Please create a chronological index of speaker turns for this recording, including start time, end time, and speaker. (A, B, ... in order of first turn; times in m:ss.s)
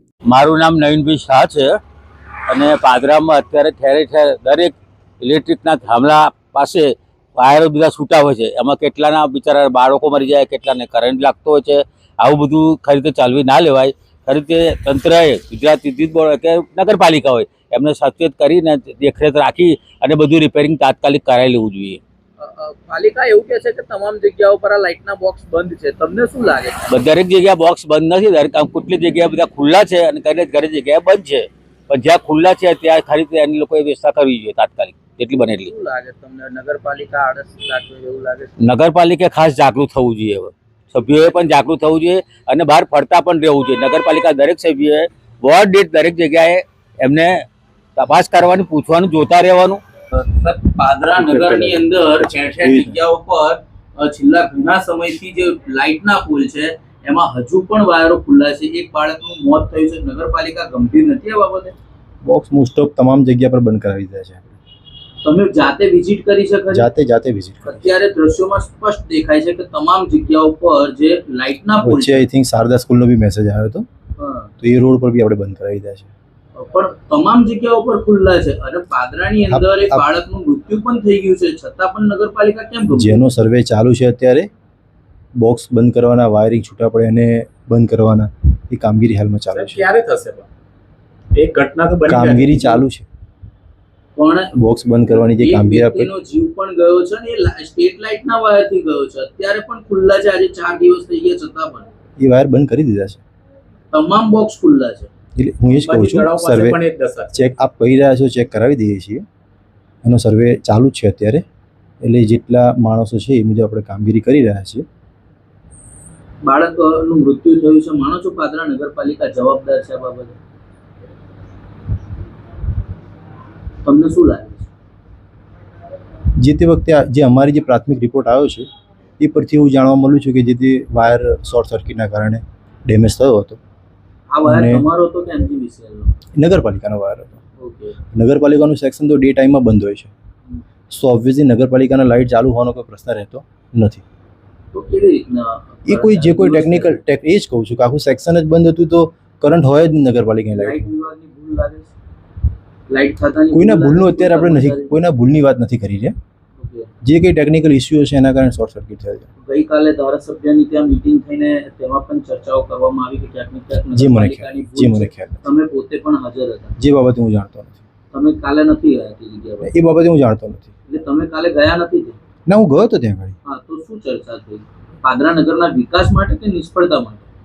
0:00.3-0:01.7 A
0:02.5-0:22.0 A
0:22.4-0:26.9 B
0:26.9-0:35.7 A
0:35.6-0:38.6 B
0:38.6-0:47.4 A
0:48.0-0:49.8 A
0:50.2-1:01.7 B
0:51.3-0:53.0 C
1:02.2-1:04.5 C
1:05.2-1:06.9 B
1:06.7-1:07.9 C
1:07.6-1:12.3 B
1:11.8-1:13.9 C
1:14.2-1:14.5 B
1:14.6-1:16.1 C
1:16.6-1:23.2 B
1:19.5-1:20.1 C
1:22.9-1:24.5 C
1:25.4-1:29.9 C
1:29.5-1:30.5 D
1:31.4-1:32.8 D
1:32.1-1:33.1 C
1:34.2-1:34.5 B
1:34.6-1:36.1 C
1:35.2-1:41.9 B
1:42.2-1:43.2 C
1:43.9-1:45.1 B
1:45.4-1:46.8 C
1:45.7-1:47.5 D
1:47.3-1:49.2 C
1:50.0-1:51.4 C
1:52.0-1:54.8 C
1:56.4-2:00.4 B
2:03.8-2:04.7 B
2:06.4-2:08.7 C
2:09.2-2:13.6 C
2:14.3-2:16.1 B
2:14.4-2:14.9 C
2:16.4-2:17.4 C
2:17.6-2:18.0 B
2:18.1-2:20.1 C
2:20.9-2:24.0 C
2:24.7-2:27.0 B
2:25.9-2:30.9 C
2:30.6-2:31.9 B
2:32.9-2:34.9 B
2:33.5-2:36.2 C
2:36.6-2:36.9 B
2:37.0-2:39.3 C
2:39.4-2:46.7 B
2:44.0-2:45.5 C
2:46.8-2:47.8 C
2:48.1-2:49.7 B
2:49.6-2:50.7 C
2:50.9-2:52.2 B
2:52.5-2:53.4 C
2:53.5-2:57.2 B